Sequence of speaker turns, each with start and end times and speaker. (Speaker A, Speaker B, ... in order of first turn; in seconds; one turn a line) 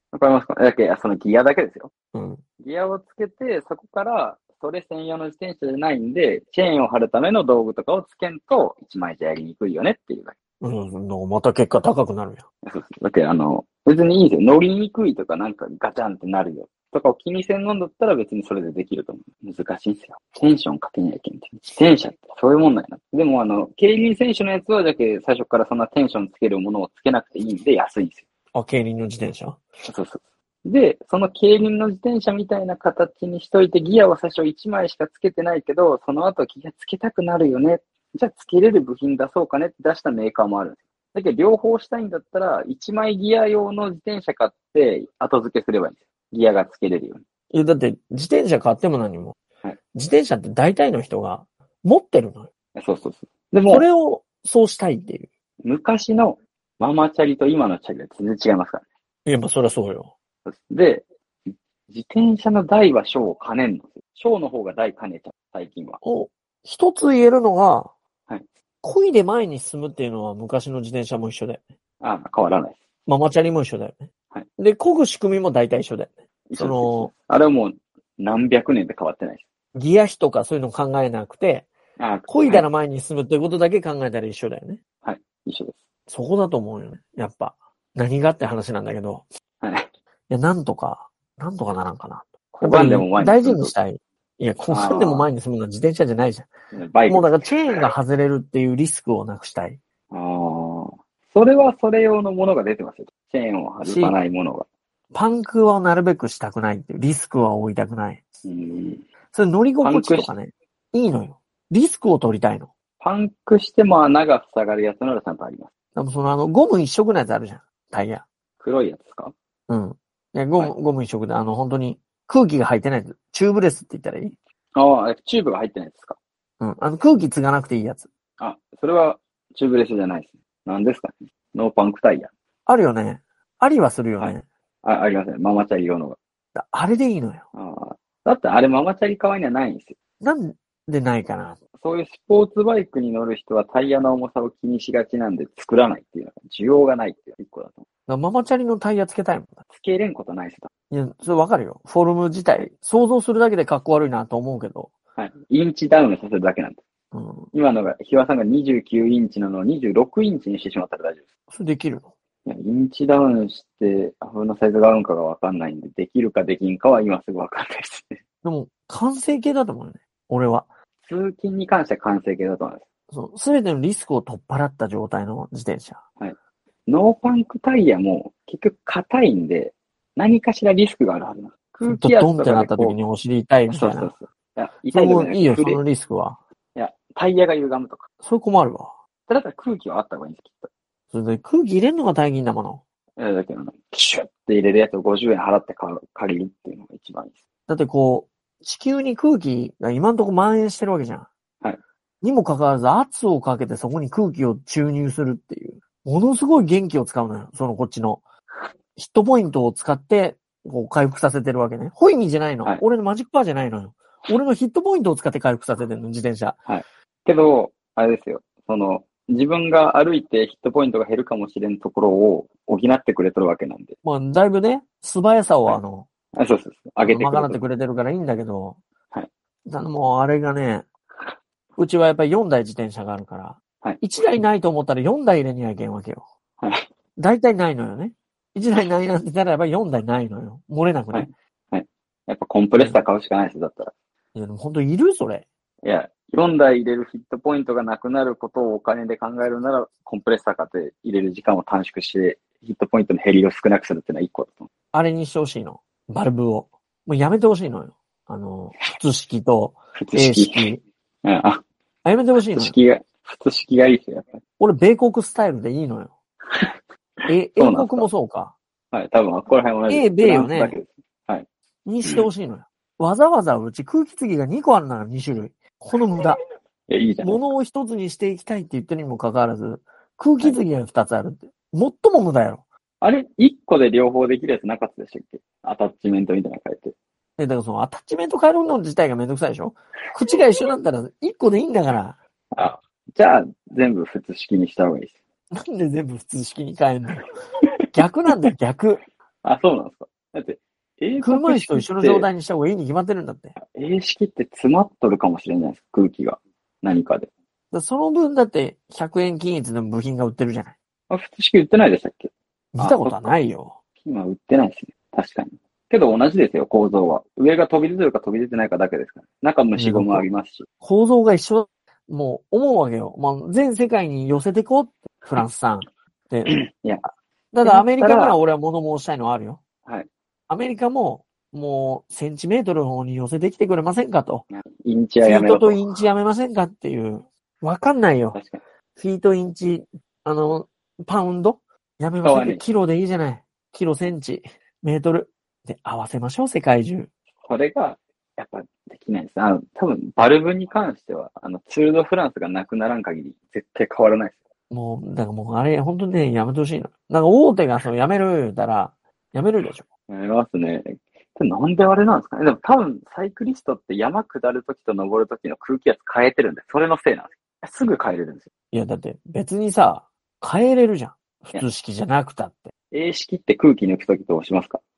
Speaker A: 0.1-1.9
Speaker B: 2.1-2.4
Speaker A: 2.6-10.3
Speaker B: 10.6-12.4
Speaker A: 12.7-28.2
Speaker B: 28.5-29.6
Speaker A: 29.9-47.2
Speaker B: 47.5-49.4
Speaker B: 49.9-52.5
Speaker A: 52.8-53.9
Speaker B: 53.7-55.3
Speaker A: 55.6-58.8
Speaker B: 59.2-60.1
Speaker A: 60.5-66.0
Speaker B: 66.0-67.9
Speaker B: 68.8-71.6
Speaker A: 72.0-72.8
Speaker B: 73.1-77.1
Speaker A: 76.5-79.4
Speaker B: 79.7-81.7
Speaker A: 82.0-82.7
Speaker B: 82.3-84.8
Speaker A: 85.0-85.8
Speaker B: 86.1-89.2
Speaker A: 89.6-89.9
Speaker B: 90.3-96.5
Speaker A: 92.5-93.7
Speaker A: 94.7-95.3
Speaker A: 96.7-97.3
Speaker B: 97.1-99.8
Speaker A: 100.1-104.7
Speaker B: 103.8-104.2
Speaker B: 105.1-108.2
Speaker A: 108.4-109.0
Speaker B: 109.3-112.7
Speaker A: 109.8-110.3
Speaker A: 113.0-115.7
Speaker B: 115.9-118.2
Speaker A: 118.6-119.3
Speaker B: 119.7-124.3
Speaker A: 124.7-126.2
Speaker B: 126.6-128.1
Speaker A: 128.4-132.3
Speaker B: 132.7-134.4
Speaker A: 134.2-136.2
Speaker B: 136.5-137.4
Speaker A: 137.5-140.0
Speaker B: 140.2-141.6
Speaker A: 141.8-147.8
Speaker B: 148.1-149.6
Speaker A: 149.7-150.7
Speaker B: 150.9-154.9
Speaker A: 155.2-156.8
Speaker B: 157.1-157.5
Speaker A: 157.5-161.2
Speaker B: 161.5-162.1
Speaker A: 162.4-168.2
Speaker B: 168.4-170.7
Speaker A: 171.0-172.8
Speaker B: 173.1-176.0
Speaker A: 176.9-183.0
Speaker B: 181.9-184.1
Speaker A: 183.7-185.8
Speaker B: 184.9-186.4
Speaker A: 186.7-188.1
Speaker B: 188.2-188.9
Speaker A: 189.3-190.7
Speaker B: 191.1-192.8
Speaker A: 193.2-197.4
Speaker B: 197.7-201.3
Speaker B: 202.2-208.2
Speaker B: 208.9-216.6
Speaker A: 216.7-223.9
Speaker B: 224.0-226.1
Speaker A: 226.3-227.6
Speaker B: 227.1-228.8
Speaker B: 229.7-230.8
Speaker B: 231.8-236.2
Speaker B: 237.2-241.3
Speaker A: 241.1-243.9
Speaker B: 242.7-243.0
Speaker B: 244.3-245.4
Speaker A: 245.8-254.7
Speaker B: 254.9-260.8
Speaker A: 260.0-260.7
Speaker A: 261.2-261.6
Speaker B: 262.0-262.7
Speaker A: 262.4-264.4
Speaker B: 264.6-266.1
Speaker A: 267.2-268.1
Speaker B: 267.3-268.5
Speaker A: 268.9-271.5
Speaker B: 269.9-270.8
Speaker B: 271.8-276.4
Speaker A: 276.9-277.5
Speaker B: 277.2-282.6
Speaker A: 283.0-286.9
Speaker B: 287.4-292.2
Speaker A: 292.5-295.2
Speaker B: 295.5-297.3
Speaker B: 297.9-299.0
Speaker A: 299.4-302.3
Speaker B: 301.2-303.5
Speaker A: 303.6-307.3
Speaker B: 307.7-310.7
Speaker A: 311.1-313.3
Speaker B: 312.7-313.7
Speaker A: 314.0-320.7
Speaker B: 319.7-320.3
Speaker B: 320.8-326.6
Speaker A: 326.5-327.0
Speaker B: 327.5-329.6
Speaker A: 327.6-328.4
Speaker B: 330.5-334.4
Speaker A: 334.5-335.9
Speaker B: 335.2-338.4
Speaker A: 338.3-338.6
Speaker B: 338.9-347.1
Speaker A: 342.2-342.6
Speaker A: 347.4-354.4
Speaker B: 354.7-359.9
Speaker A: 360.1-368.5
Speaker B: 368.7-372.7
Speaker A: 372.9-374.8